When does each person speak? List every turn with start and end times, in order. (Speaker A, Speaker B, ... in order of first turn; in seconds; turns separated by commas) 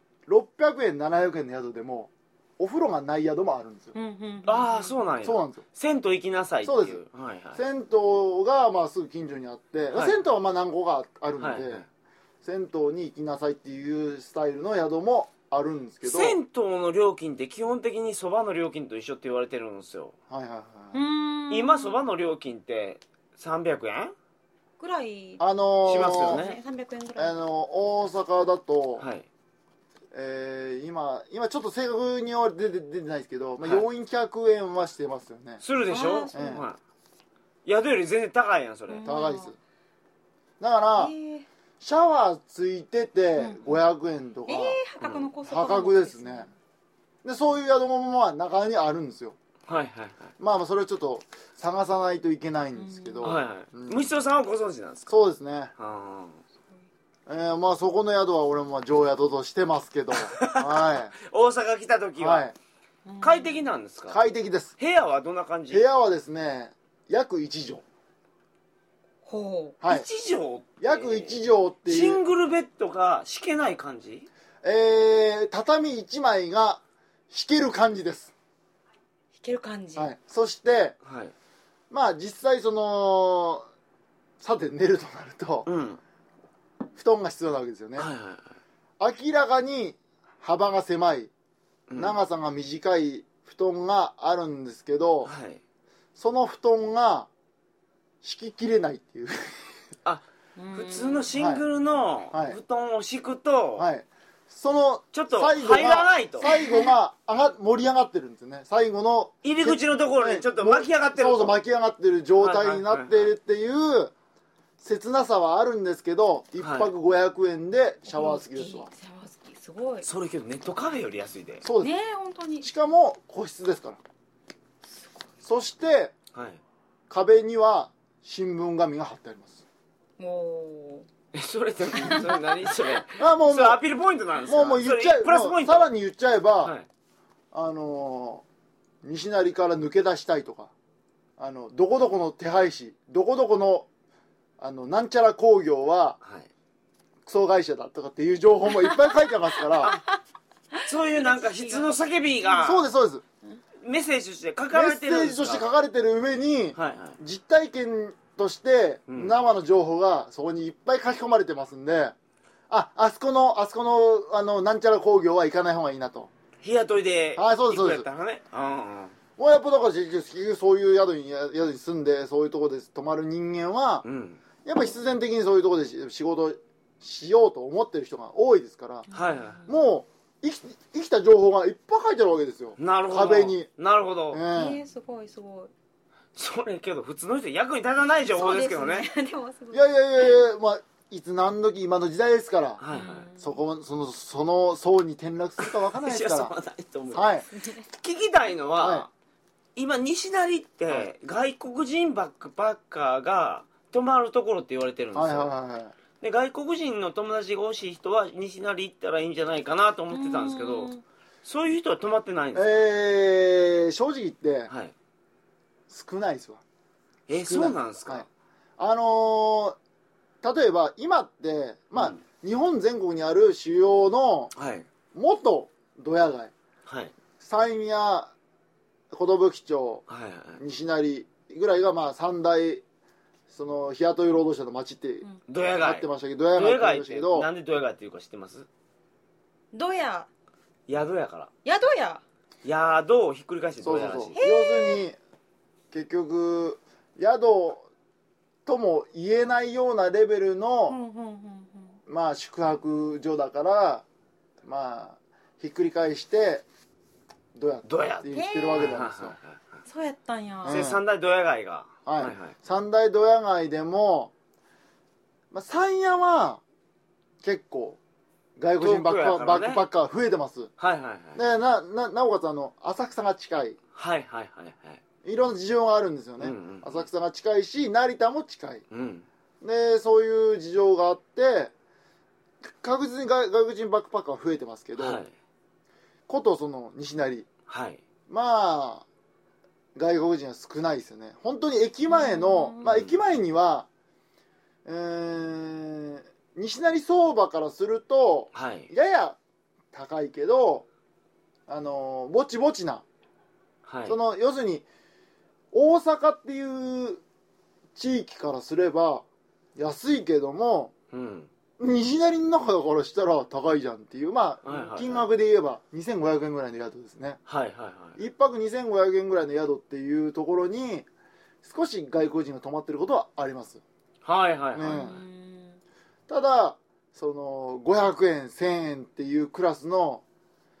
Speaker A: 0.3-3.9, Speaker B: 3.9-5.0, Speaker C: 4.4-7.6, Speaker A: 5.2-5.6, Speaker A: 6.6-7.0, Speaker A: 7.5-11.8, Speaker C: 9.9-10.2, Speaker C: 11.4-11.8, Speaker A: 12.4-16.4, Speaker C: 16.0-20.1, Speaker A: 20.3-21.0, Speaker B: 20.9-22.0, Speaker C: 21.5-24.1, Speaker B: 24.8-27.4, Speaker A: 25.4-26.4, Speaker C: 25.8-26.6, Speaker A: 27.1-29.1, Speaker C: 29.0-29.3, Speaker A: 30.1-35.6, Speaker C: 35.6-36.8, Speaker B: 35.9-36.6, Speaker A: 36.3-36.6, Speaker C: 37.6-39.1, Speaker B: 38.9-39.5, Speaker A: 39.0-39.5, Speaker A: 40.6-41.1, Speaker B: 41.0-41.5, Speaker A: 41.8-44.8, Speaker B: 43.4-43.8, Speaker B: 44.5-46.5, Speaker C: 45.0-45.3, Speaker A: 45.4-46.5, Speaker A: 47.2-49.4, Speaker C: 49.7-50.3, Speaker A: 50.4-54.1, Speaker B: 52.8-53.4, Speaker C: 53.2-55.1, Speaker A: 55.1-55.7, Speaker C: 55.8-56.4, Speaker A: 57.3-61.1, Speaker C: 60.2-62.5, Speaker A: 62.2-62.5, Speaker B: 63.0-63.6, Speaker C: 63.2-64.2, Speaker A: 64.1-64.7, Speaker C: 64.8-65.8, Speaker A: 65.7-67.8, Speaker B: 69.2-69.8, Speaker A: 69.8-70.1, Speaker C: 69.9-74.3, Speaker A: 70.8-72.2, Speaker A: 74.6-78.3, Speaker B: 79.3-80.1, Speaker A: 80.0-81.0, Speaker C: 81.0-81.3, Speaker A: 81.9-83.6, Speaker A: 84.4-85.7, Speaker C: 85.7-86.0, Speaker A: 86.9-88.1, Speaker C: 88.0-88.5, Speaker A: 89.0-91.3, Speaker C: 91.9-92.2, Speaker A: 92.0-95.3, Speaker C: 95.2-95.6, Speaker A: 96.2-97.3, Speaker A: 98.2-99.5, Speaker C: 100.0-103.9, Speaker B: 100.6-101.3, Speaker A: 101.3-101.6, Speaker A: 102.3-102.6, Speaker A: 103.8-114.1, Speaker C: 105.1-106.5, Speaker B: 106.4-106.9, Speaker C: 109.4-111.6, Speaker C: 112.4-113.3, Speaker A: 114.8-118.9, Speaker C: 116.6-116.9, Speaker B: 118.1-120.1, Speaker C: 120.0-121.6, Speaker A: 121.6-121.9, Speaker B: 121.8-122.7, Speaker A: 122.6-124.0, Speaker A: 125.4-126.1, Speaker C: 126.3-126.6, Speaker A: 127.1-129.6, Speaker B: 130.2-131.1, Speaker C: 131.3-135.9, Speaker B: 132.0-132.3, Speaker A: 133.2-133.8, Speaker A: 134.4-136.7, Speaker A: 137.5-138.4, Speaker A: 139.0-140.7, Speaker A: 141.4-143.9, Speaker A: 144.6-146.2, Speaker C: 146.2-146.5, Speaker A: 147.3-150.0, Speaker C: 150.8-152.8, Speaker B: 151.1-151.9, Speaker A: 152.5-153.2, Speaker C: 153.8-155.7, Speaker A: 154.7-162.1, Speaker C: 156.7-157.2, Speaker C: 159.1-159.3, Speaker A: 162.7-166.3, Speaker C: 166.6-169.1, Speaker A: 167.3-168.1, Speaker A: 169.4-174.0, Speaker C: 174.0-174.4, Speaker A: 174.6-179.1, Speaker B: 179.1-179.7, Speaker C: 179.1-179.6, Speaker A: 179.7-183.7, Speaker C: 182.8-184.4, Speaker A: 184.3-184.8, Speaker B: 184.5-185.7, Speaker C: 186.3-189.1, Speaker B: 188.3-190.0, Speaker A: 189.7-192.8, Speaker C: 192.8-193.3, Speaker B: 192.9-193.6, Speaker A: 193.4-196.5, Speaker C: 195.6-197.3, Speaker A: 197.1-197.5, Speaker B: 197.5-197.8, Speaker C: 197.9-199.1, Speaker A: 198.8-199.1, Speaker C: 199.8-205.5, Speaker A: 205.1-205.9, Speaker C: 206.2-210.9, Speaker B: 210.1-211.0, Speaker C: 211.4-212.8, Speaker A: 212.5-214.7, Speaker A: 215.9-216.6, Speaker C: 217.3-218.3, Speaker A: 217.3-218.2, Speaker A: 218.8-219.8, Speaker A: 220.4-224.5, Speaker C: 224.5-224.9, Speaker A: 225.1-226.5, Speaker C: 226.8-227.1, Speaker A: 227.4-228.3, Speaker A: 229.1-230.0, Speaker C: 230.1-230.6, Speaker A: 230.6-232.8, Speaker A: 233.5-235.3, Speaker C: 235.5-238.7, Speaker A: 235.8-237.5, Speaker B: 239.7-240.3, Speaker C: 240.9-241.5, Speaker B: 241.6-242.2, Speaker C: 242.6-244.4, Speaker A: 243.8-245.2, Speaker B: 244.3-245.0, Speaker A: 245.9-247.9, Speaker A: 248.7-251.0, Speaker B: 250.9-252.0, Speaker A: 252.1-254.0, Speaker A: 254.6-256.6, Speaker A: 257.5-259.4, Speaker C: 257.8-259.6, Speaker B: 258.3-259.0, Speaker B: 259.8-260.8, Speaker A: 260.6-261.0, Speaker C: 260.7-262.5, Speaker A: 262.1-264.3, Speaker A: 265.5-266.6, Speaker A: 267.4-268.0, Speaker A: 268.6-270.7, Speaker C: 268.8-269.8, Speaker C: 270.8-271.4, Speaker A: 271.3-273.8, Speaker C: 273.9-275.0, Speaker A: 275.2-278.8, Speaker C: 276.4-277.1, Speaker C: 278.9-279.2, Speaker A: 279.6-281.7, Speaker A: 282.6-285.2, Speaker C: 285.0-285.3, Speaker A: 286.3-287.5, Speaker C: 287.7-288.0, Speaker A: 288.3-289.1, Speaker A: 289.9-293.9, Speaker B: 292.1-292.9, Speaker C: 292.8-293.2, Speaker A: 294.8-299.4, Speaker C: 298.5-298.9, Speaker A: 299.9-300.9, Speaker A: 301.7-303.0, Speaker C: 303.9-304.2, Speaker A: 304.1-304.9, Speaker A: 305.7-307.2, Speaker A: 307.9-309.2, Speaker A: 309.8-310.9, Speaker C: 311.1-311.5, Speaker A: 311.8-317.4, Speaker C: 314.6-315.2, Speaker C: 317.5-318.2, Speaker A: 318.1-321.1, Speaker A: 321.6-323.8, Speaker C: 324.2-325.2, Speaker A: 324.7-325.2, Speaker B: 324.8-325.8, Speaker A: 326.3-330.2